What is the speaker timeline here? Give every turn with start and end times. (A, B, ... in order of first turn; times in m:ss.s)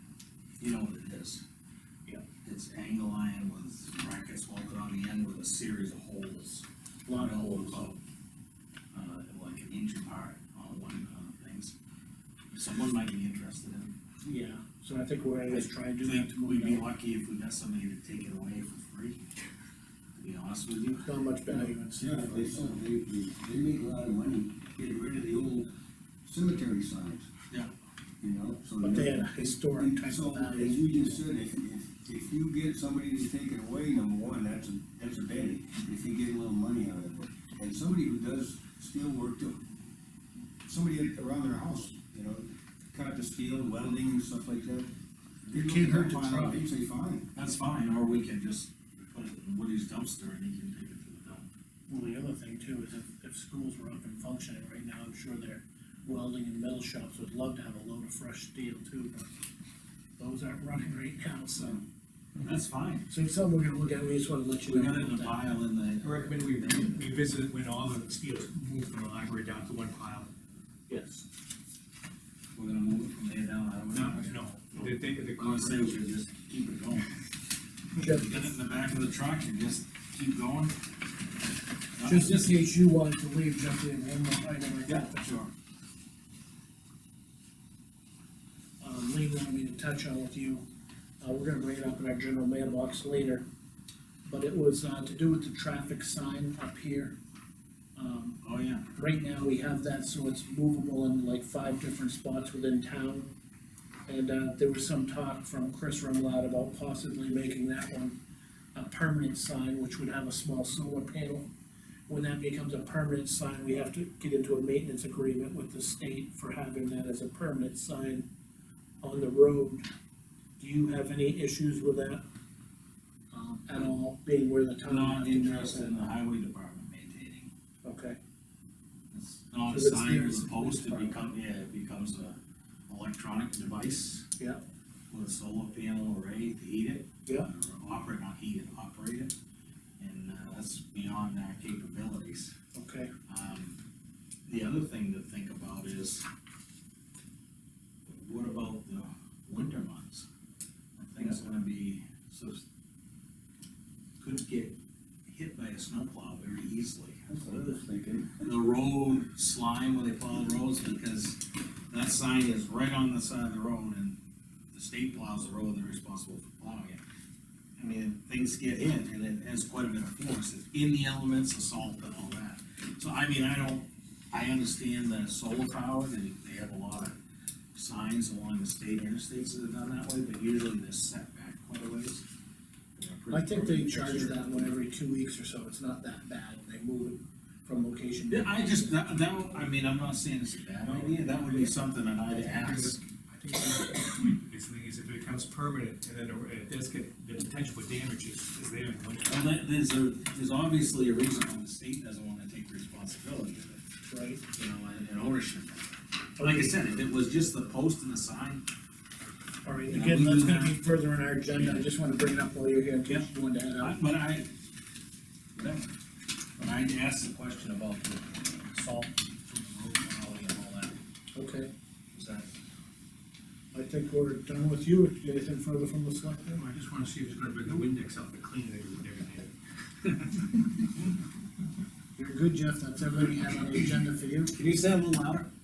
0:00.6-0:01.4 A
0:02.4-0:08.0 A
0:07.0-0:07.8 B
0:08.9-0:11.7 A
0:12.5-0:14.0 A
0:14.2-0:16.9 B
0:15.5-0:19.2 A
0:20.2-0:21.0 A
0:21.0-0:22.7 B
0:21.5-0:25.7 C
0:26.2-0:27.3 C
0:28.2-0:39.6 C
0:28.8-0:31.2 B
0:40.6-0:44.9 C
0:45.4-0:47.3 C
0:45.5-0:46.6 B
0:47.3-0:51.5 A
0:51.9-0:59.3 B
1:00.2-1:01.8 B
1:02.4-1:03.1 A
1:03.1-1:05.4 B
1:04.6-1:07.1 A
1:06.0-1:10.3 D
1:10.9-1:11.2 B
1:12.5-1:17.1 A
1:13.9-1:16.0 D
1:18.0-1:18.5 B
1:18.1-1:20.8 A
1:22.0-1:22.5 A
1:22.0-1:25.3 B
1:24.8-1:25.5 A
1:28.8-1:30.6 B
1:31.2-1:33.4 B
1:34.2-1:37.1 B
1:38.0-1:38.4 B
1:38.4-1:38.9 A
1:38.9-1:43.3 B
1:44.1-1:48.2 B
1:48.7-1:51.5 B
1:52.1-1:58.2 B
1:59.0-1:59.8 B
2:00.6-2:02.2 B
2:03.3-2:06.1 B
2:04.8-2:07.5 A
2:07.8-2:08.2 B
2:09.1-2:14.3 A
2:09.7-2:11.2 B
2:15.1-2:19.3 A
2:20.0-2:22.5 A
2:22.7-2:23.1 B
2:23.3-2:23.8 A
2:24.4-2:26.2 A
2:28.0-2:30.3 A
2:31.0-2:32.6 A
2:34.2-2:37.3 A
2:37.3-2:38.4 C
2:38.4-2:44.2 A
2:44.7-2:47.0 A
2:47.8-2:57.2 A
2:57.7-3:02.2 A
3:03.0-3:04.6 A
3:03.3-3:09.0 B
3:08.3-3:13.0 A
3:12.3-3:19.4 D
3:19.2-3:23.8 A
3:24.0-3:24.4 B
3:24.5-3:28.6 A
3:26.4-3:26.8 B
3:29.6-3:34.0 B
3:29.9-3:30.8 A
3:31.5-3:31.9 A
3:33.8-3:34.5 A
3:35.5-3:35.9 A
3:36.6-3:41.0 A
3:41.3-3:41.7 B
3:42.1-3:42.5 A
3:43.7-3:46.6 B
3:46.5-3:49.5 D
3:50.1-3:50.6 D
3:52.2-3:54.6 B
3:54.5-3:55.5 A